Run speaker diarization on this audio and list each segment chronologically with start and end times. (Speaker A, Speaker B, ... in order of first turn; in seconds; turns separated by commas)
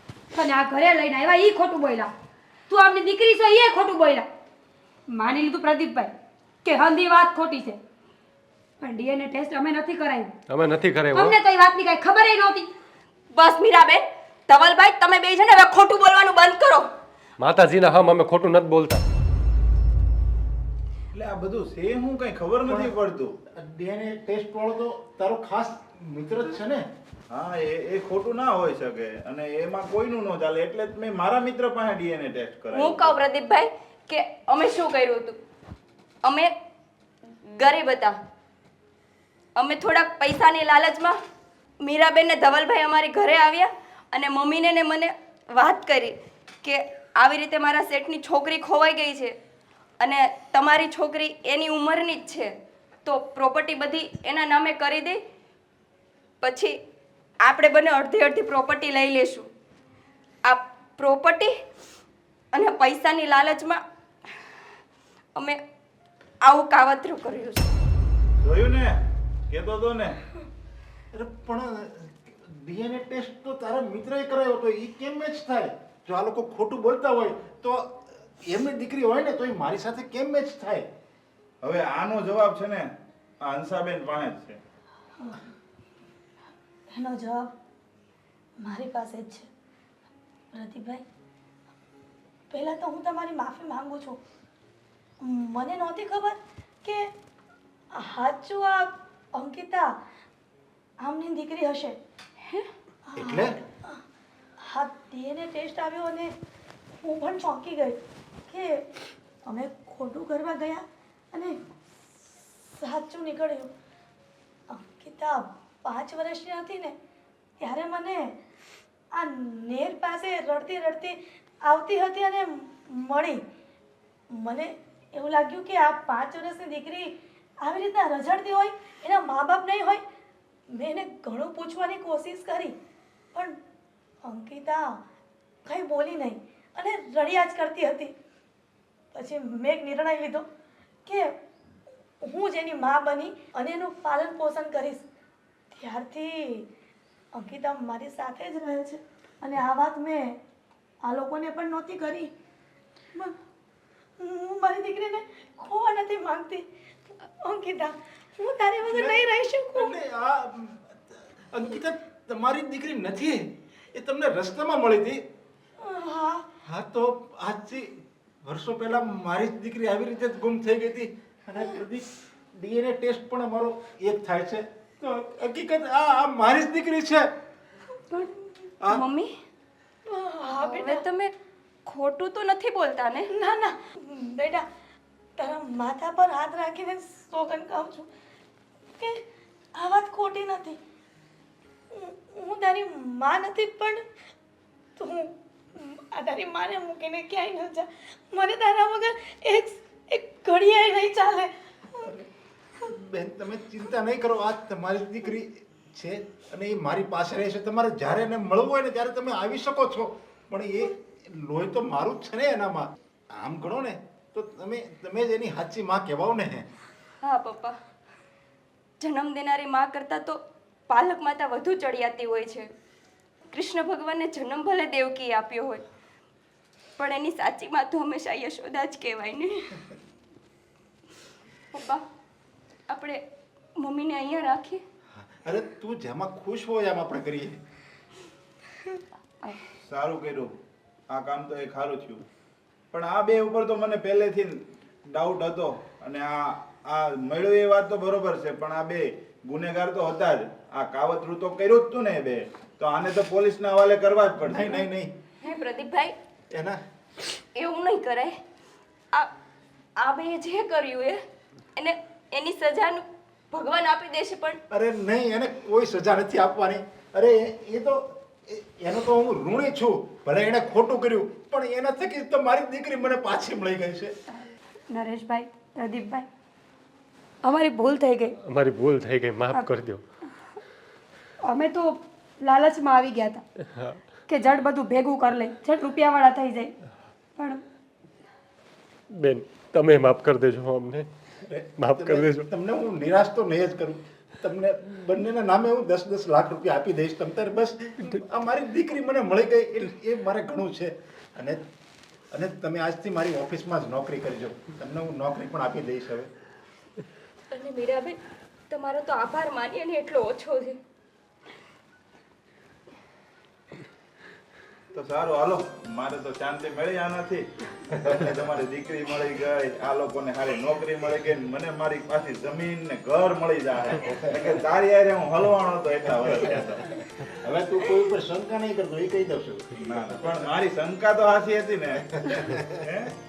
Speaker A: 0.3-2.1, Speaker A: 2.7-4.3, Speaker A: 5.1-6.1, Speaker A: 6.6-7.8, Speaker A: 8.8-10.3, Speaker B: 10.5-11.4, Speaker A: 11.1-12.7, Speaker C: 13.3-16.9, Speaker B: 17.4-19.0, Speaker D: 21.1-23.4, Speaker E: 22.6-23.0, Speaker E: 23.6-26.8, Speaker D: 27.3-33.2, Speaker C: 32.7-35.4, Speaker C: 36.2-36.5, Speaker C: 37.6-38.1, Speaker C: 39.6-41.2, Speaker C: 41.8-49.3, Speaker C: 50.0-52.5, Speaker C: 53.0-55.2, Speaker C: 56.4-56.8, Speaker C: 57.4-59.5, Speaker C: 60.5-61.5, Speaker C: 62.5-63.8, Speaker C: 66.5-67.7, Speaker D: 68.4-68.9, Speaker D: 69.5-70.2, Speaker E: 71.1-80.9, Speaker D: 81.6-82.9, Speaker D: 83.4-84.6, Speaker F: 86.9-87.5, Speaker F: 88.6-89.5, Speaker F: 90.5-91.0, Speaker F: 92.5-94.2, Speaker F: 95.2-97.1, Speaker F: 98.0-100.0, Speaker F: 101.0-102.0, Speaker F: 103.1-104.0, Speaker E: 103.2-103.6, Speaker F: 104.6-106.3, Speaker F: 107.0-108.9, Speaker F: 109.5-111.6, Speaker F: 112.7-113.7, Speaker F: 114.7-117.0, Speaker F: 117.6-118.3, Speaker F: 119.1-123.4, Speaker F: 124.3-130.0, Speaker F: 130.7-132.7, Speaker F: 134.2-135.0, Speaker F: 135.7-138.1, Speaker F: 139.1-140.4, Speaker F: 141.1-141.3, Speaker F: 142.2-145.1, Speaker F: 145.7-146.7, Speaker F: 147.3-150.4, Speaker F: 151.0-152.3, Speaker F: 154.2-156.7, Speaker F: 157.3-159.9, Speaker E: 158.8-165.2, Speaker F: 165.8-166.4, Speaker E: 166.7-167.9, Speaker E: 168.4-177.3, Speaker C: 178.9-179.3, Speaker F: 180.1-181.0, Speaker C: 180.6-181.3, Speaker C: 181.9-183.3, Speaker F: 183.3-184.6, Speaker F: 185.4-188.1, Speaker F: 189.8-190.8, Speaker F: 191.9-194.0, Speaker F: 195.0-202.1, Speaker E: 202.8-212.8, Speaker E: 213.4-216.7, Speaker C: 217.2-217.8, Speaker C: 219.0-220.4, Speaker C: 220.9-222.7, Speaker C: 223.5-225.8, Speaker C: 227.0-229.8, Speaker C: 231.7-232.0, Speaker C: 232.9-233.2, Speaker C: 233.8-234.8, Speaker E: 235.2-237.6, Speaker D: 239.8-240.5, Speaker D: 241.1-242.2, Speaker D: 242.9-254.8, Speaker E: 254.5-255.1, Speaker C: 255.4-256.1, Speaker E: 256.5-256.8, Speaker C: 257.6-258.4, Speaker C: 260.0-261.2, Speaker C: 261.8-264.6, Speaker E: 264.7-274.1, Speaker A: 274.9-276.3, Speaker A: 277.4-278.4, Speaker B: 278.4-280.0, Speaker A: 281.4-283.4, Speaker A: 284.3-286.7, Speaker A: 287.4-287.6, Speaker B: 289.1-291.1, Speaker E: 291.5-301.7, Speaker B: 291.8-292.5, Speaker E: 302.3-306.3, Speaker C: 307.5-308.2, Speaker C: 308.7-310.8, Speaker D: 314.9-326.9, Speaker E: 324.0-324.5, Speaker E: 326.2-326.6, Speaker E: 327.3-329.8, Speaker D: 329.8-333.1